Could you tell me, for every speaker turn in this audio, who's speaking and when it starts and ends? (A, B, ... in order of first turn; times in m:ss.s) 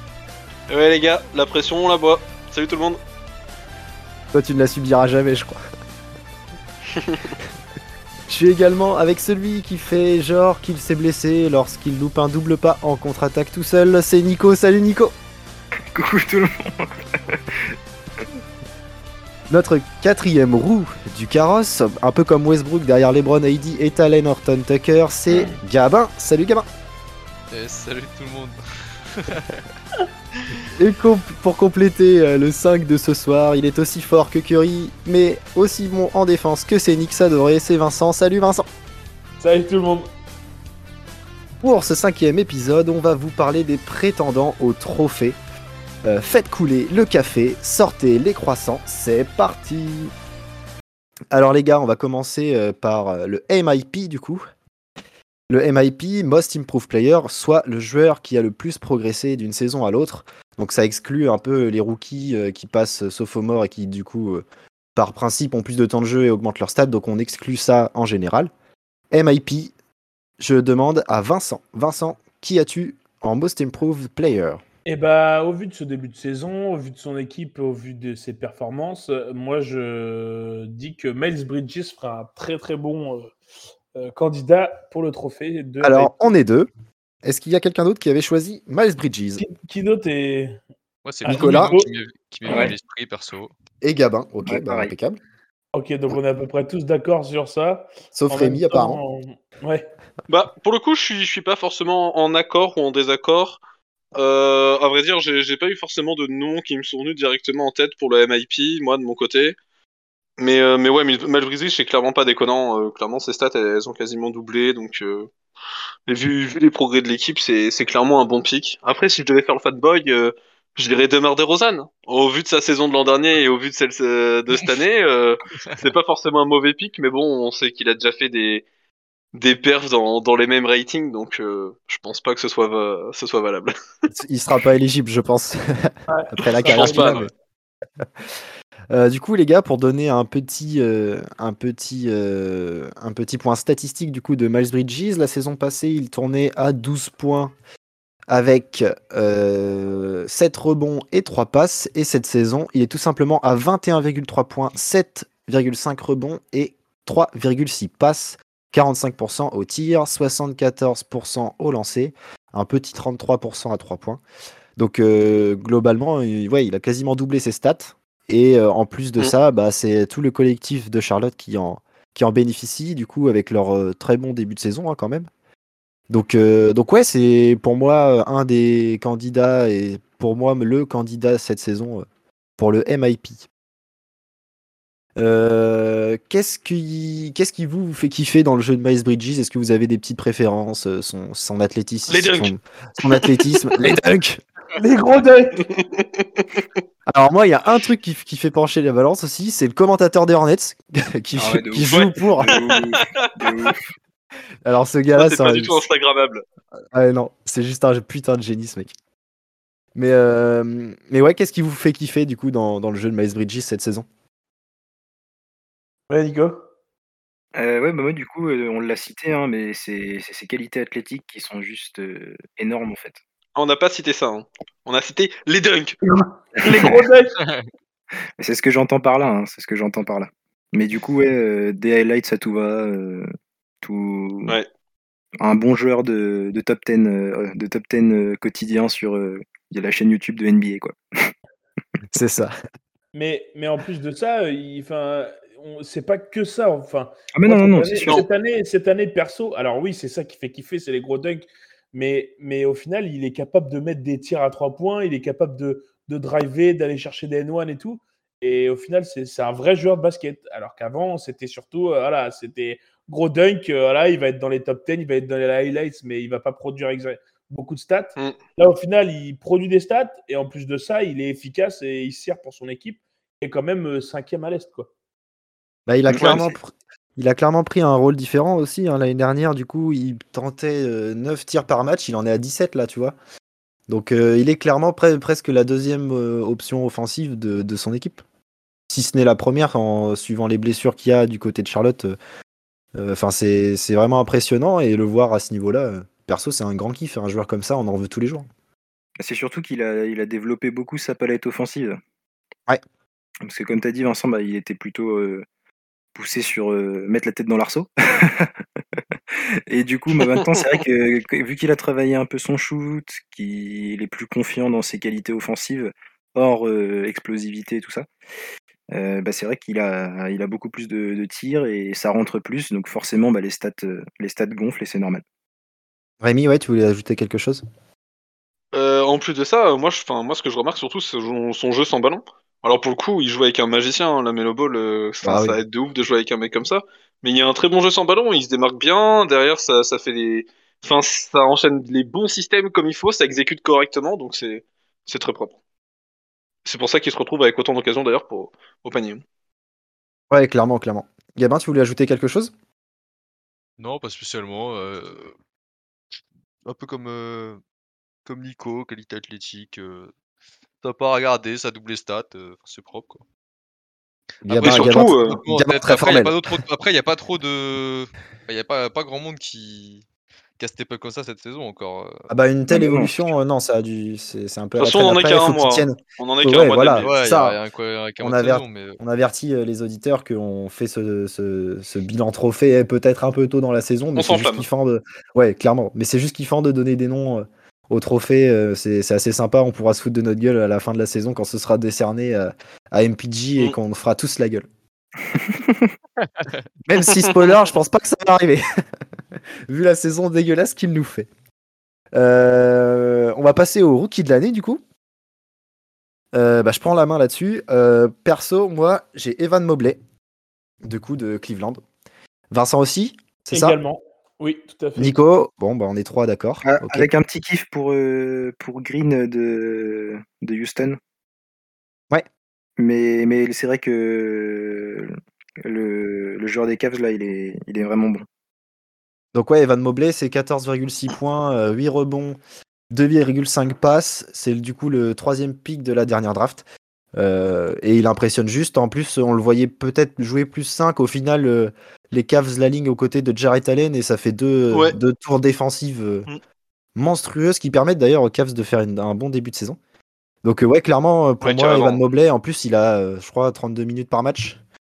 0:00.7-0:03.0 A
0:04.3-0:05.6 B
0:07.0-0:07.3 A
0:08.3-0:15.1 B
0:15.9-0:18.2 C
0:19.5-0:26.7 B
0:27.5-0:29.6 D
0:30.4-0:30.7 D
0:30.7-0:38.7 B
0:39.4-0:40.1 E
0:41.6-0:45.4 B
0:46.0-0:50.1 B
0:51.3-0:54.4 B
0:55.5-1:04.4 B
1:05.0-1:08.5 B
1:09.1-1:09.7 B
1:10.4-1:14.6 B
1:14.9-1:23.3 E
1:24.0-1:26.2 E
1:25.8-1:26.7 B
1:27.2-1:29.4 B
1:29.4-1:30.6 E
1:31.0-1:33.5 D
1:31.2-1:31.9 E
1:31.3-1:31.7 B
1:32.5-1:32.7 C
1:33.8-1:35.2 B
1:34.4-1:34.9 C
1:35.7-1:39.9 E
1:38.1-1:39.0 B
1:40.3-1:43.6 A
1:44.2-1:49.6 A
1:50.4-1:55.3 A
1:56.1-2:08.6 A
2:09.4-2:13.7 A
2:14.1-2:17.3 B
2:16.1-2:17.2 E
2:16.6-2:17.3 A
2:18.9-2:27.5 B
2:28.3-2:44.2 B
2:44.8-2:55.3 B
2:56.1-3:02.1 B
3:02.6-3:03.5 B
3:05.2-3:14.4 B
3:12.1-3:13.7 A
3:14.8-3:15.6 E
3:15.6-3:16.7 A
3:17.1-3:22.6 B
3:21.4-3:23.9 C
3:21.9-3:23.7 A
3:24.6-3:25.8 B
3:25.2-3:26.4 A
3:26.9-3:28.9 B
3:30.0-3:34.1 B
3:36.1-3:36.6 E
3:37.6-3:43.2 C
3:43.6-3:46.0 A
3:46.0-3:47.4 E
3:46.7-3:47.0 C
3:47.4-3:47.7 D
3:48.4-3:53.3 C
3:53.8-3:54.6 C
3:55.4-4:01.3 C
4:02.1-4:02.5 B
4:03.1-4:34.9 E
4:07.3-4:08.2 C
4:35.9-4:43.2 B
4:36.1-4:36.5 C
4:36.1-4:36.4 A
4:43.9-4:48.2 B
4:48.9-4:52.2 B
4:53.0-4:58.5 B
4:59.2-5:02.0 C
5:03.4-5:05.4 C
5:06.2-5:09.0 C
5:09.7-5:18.1 C
5:10.2-5:10.6 A
5:18.9-5:25.2 C
5:26.2-5:27.6 B
5:28.7-5:45.6 A
5:35.2-5:35.6 B
5:46.6-5:49.2 A
5:50.3-5:52.5 B
5:53.8-5:55.4 D
5:56.6-5:57.6 D
5:58.2-6:00.1 D
6:00.8-6:03.2 D
6:04.4-6:06.6 B
6:04.4-6:10.0 D
6:04.6-6:05.4 A
6:10.6-6:12.3 D
6:12.3-6:17.6 B
6:12.7-6:13.1 C
6:14.8-6:17.1 A
6:17.0-6:19.0 D
6:18.2-6:34.7 B
6:24.2-6:24.6 A
6:35.3-6:35.9 C
6:36.2-6:36.6 D
6:36.9-6:38.6 B
6:39.7-6:41.3 B
6:42.1-6:44.8 B
6:46.3-6:50.0 B
6:50.8-6:51.8 B
6:52.5-6:53.8 B
6:53.5-6:55.2 E
6:55.0-6:57.1 B
6:56.6-7:01.0 C
7:02.8-7:05.1 C
7:05.6-7:08.3 C
7:09.3-7:12.4 B
7:12.9-7:16.6 B
7:17.2-7:26.3 B
7:24.7-7:25.0 A
7:27.0-7:29.8 B
7:30.4-7:34.6 B
7:31.4-7:32.0 A